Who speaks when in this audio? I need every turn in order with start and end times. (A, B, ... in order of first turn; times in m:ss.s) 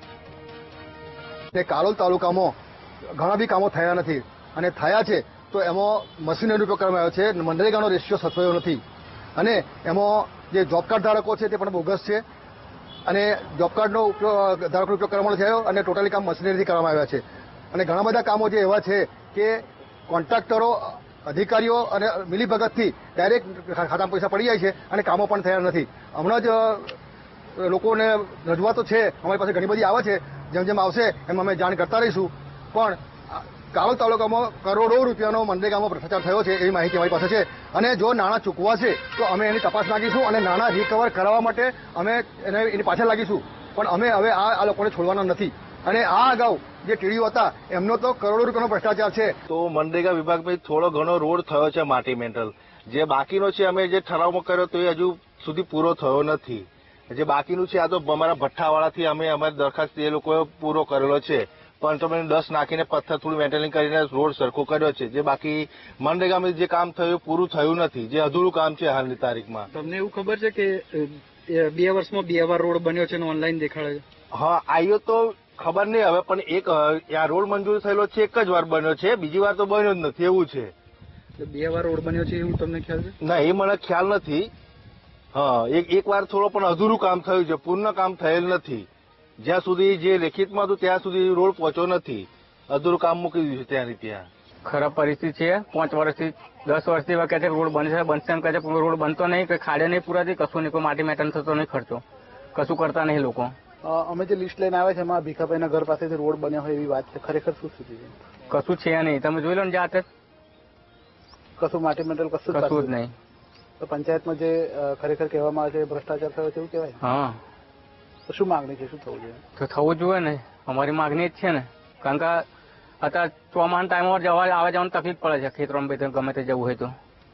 0:01.5-0:02.5 A
0:03.1-0:08.8 A
0:09.4-0:12.2 A
0:13.0-0:27.0 A
0:27.6-0:49.3 A
0:49.5-1:09.7 B
1:09.7-1:14.0 C
1:14.3-1:20.7 B
1:21.4-1:23.2 C
1:23.2-1:24.5 B
1:25.3-1:28.9 B
1:29.4-1:34.3 B
1:34.6-1:42.0 D
1:42.5-1:43.5 D
1:43.8-1:48.0 E
1:48.5-1:50.0 D
1:51.6-1:52.9 E
1:52.5-1:53.1 D
1:53.8-1:57.0 E
1:57.0-1:57.4 D
1:58.3-1:59.1 E
1:59.6-2:02.4 D
2:03.0-2:06.9 D